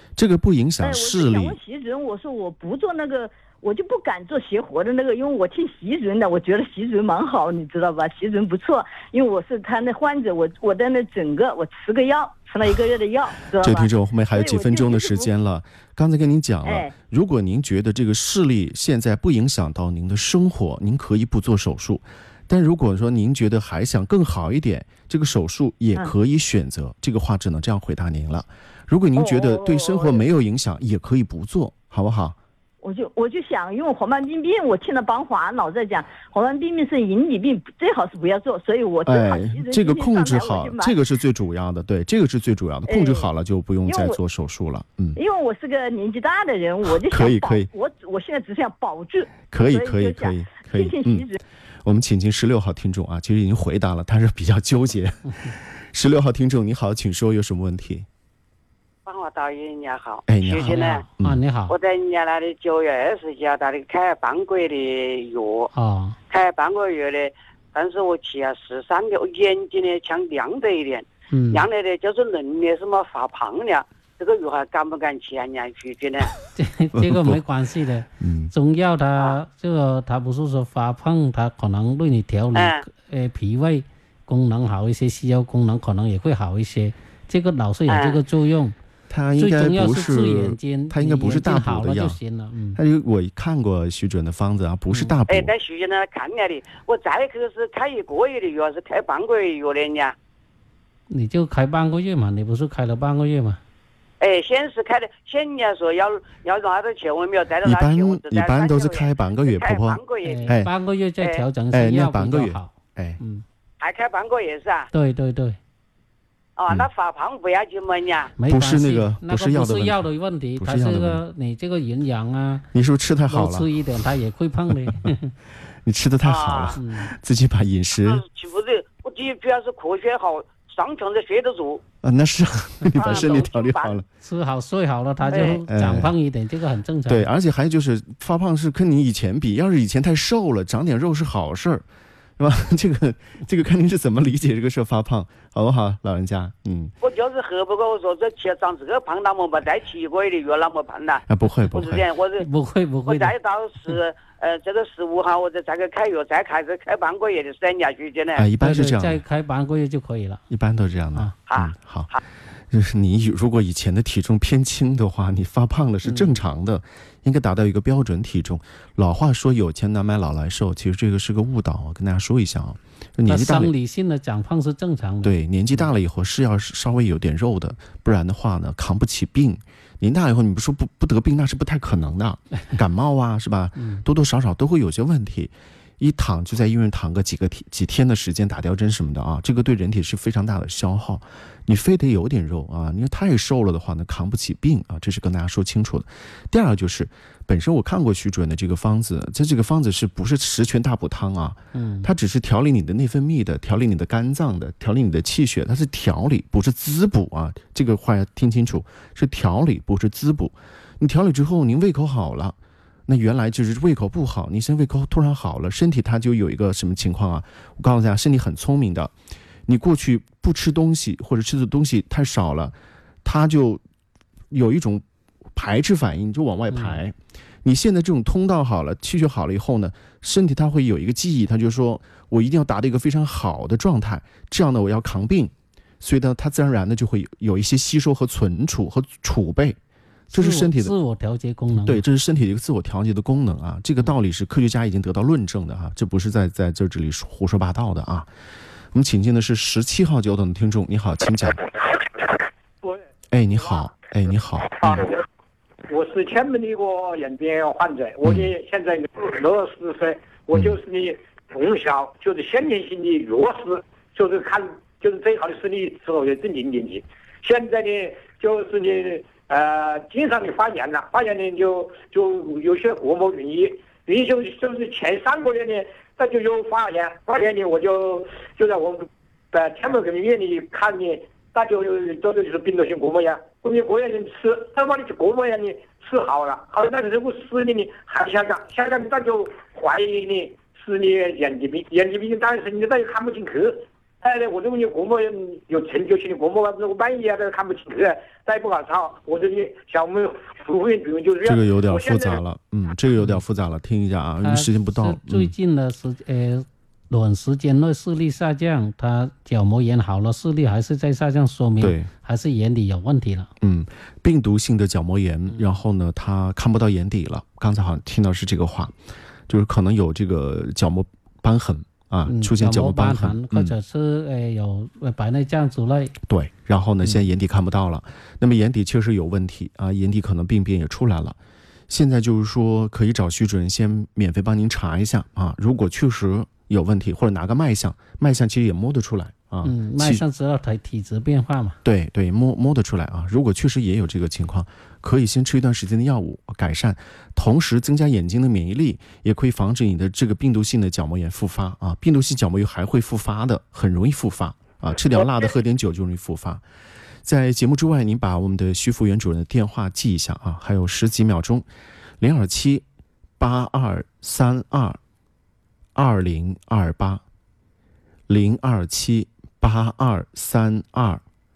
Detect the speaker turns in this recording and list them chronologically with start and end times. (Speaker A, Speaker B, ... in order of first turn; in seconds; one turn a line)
Speaker A: 0.2-1.6
Speaker B: 0.8-15.3
Speaker A: 13.6-32.4
Speaker B: 16.6-16.9
Speaker B: 29.2-30.2
Speaker B: 32.8-40.9
Speaker A: 39.1-45.2
Speaker B: 42.9-43.3
Speaker B: 43.9-44.2
Speaker B: 45.1-51.4
Speaker A: 46.9-47.7
Speaker A: 49.5-51.3
Speaker A: 51.8-58.1
Speaker C: 59.1-61.0
Speaker A: 60.3-61.4
Speaker D: 60.6-61.8
Speaker C: 61.7-65.7
Speaker D: 65.7-66.2
Speaker C: 66.3-76.3
Speaker D: 71.3-71.7
Speaker D: 76.6-88.8
Speaker A: 76.9-77.4
Speaker A: 78.2-78.5
Speaker C: 82.5-82.8
Speaker C: 87.9-88.2
Speaker A: 89.1-92.2
Speaker D: 89.4-92.8
Speaker A: 92.8-95.5
Speaker C: 95.3-100.2
Speaker D: 101.1-103.6
Speaker C: 104.2-110.5
Speaker A: 107.6-110.7
Speaker D: 110.2-113.4
Speaker A: 111.7-113.2
Speaker C: 113.8-114.9
Speaker D: 114.9-115.6
Speaker C: 116.6-118.3
Speaker D: 118.4-122.7
Speaker A: 118.5-121.2
Speaker A: 122.7-123.7
Speaker D: 123.3-125.3
Speaker A: 125.8-128.2
Speaker C: 126.2-126.8
Speaker D: 126.8-127.1
Speaker C: 127.9-131.8
Speaker A: 132.0-134.1
Speaker D: 132.9-133.3
Speaker C: 132.9-134.0
Speaker D: 134.2-137.3
Speaker C: 135.2-135.7
Speaker A: 135.7-136.1
Speaker A: 137.1-141.8
Speaker A: 142.4-146.9
Speaker C: 147.0-152.5
Speaker A: 151.3-152.1
Speaker D: 152.4-153.3
Speaker C: 153.1-158.5
Speaker A: 158.4-159.2
Speaker D: 158.6-160.4
Speaker A: 160.5-162.1
Speaker C: 161.5-162.2
Speaker A: 162.7-173.7
Speaker D: 166.1-166.3
Speaker D: 173.3-175.4
Speaker A: 175.2-219.1
Speaker D: 183.8-184.1
Speaker D: 201.7-202.1
Speaker A: 219.7-223.8
Speaker A: 224.5-225.0
Speaker A: 225.6-239.8
Speaker D: 226.7-227.0
Speaker A: 240.3-240.9
Speaker D: 240.3-242.0
Speaker A: 241.7-248.3
Speaker A: 248.9-251.6
Speaker A: 253.3-255.1
Speaker E: 253.6-253.9
Speaker E: 254.8-255.2
Speaker E: 255.9-302.4
Speaker A: 258.2-258.5
Speaker A: 301.4-305.5
Speaker D: 304.4-313.5
Speaker A: 311.8-312.1
Speaker A: 313.6-318.9
Speaker D: 315.5-315.8
Speaker A: 319.5-323.7
Speaker D: 322.2-326.1
Speaker A: 326.2-331.4
Speaker A: 331.9-340.2
Speaker D: 339.6-341.8
Speaker A: 341.8-356.6
Speaker A: 357.2-361.7
Speaker A: 362.2-362.9
Speaker A: 363.4-365.0
Speaker A: 365.9-367.2
Speaker A: 368.3-371.2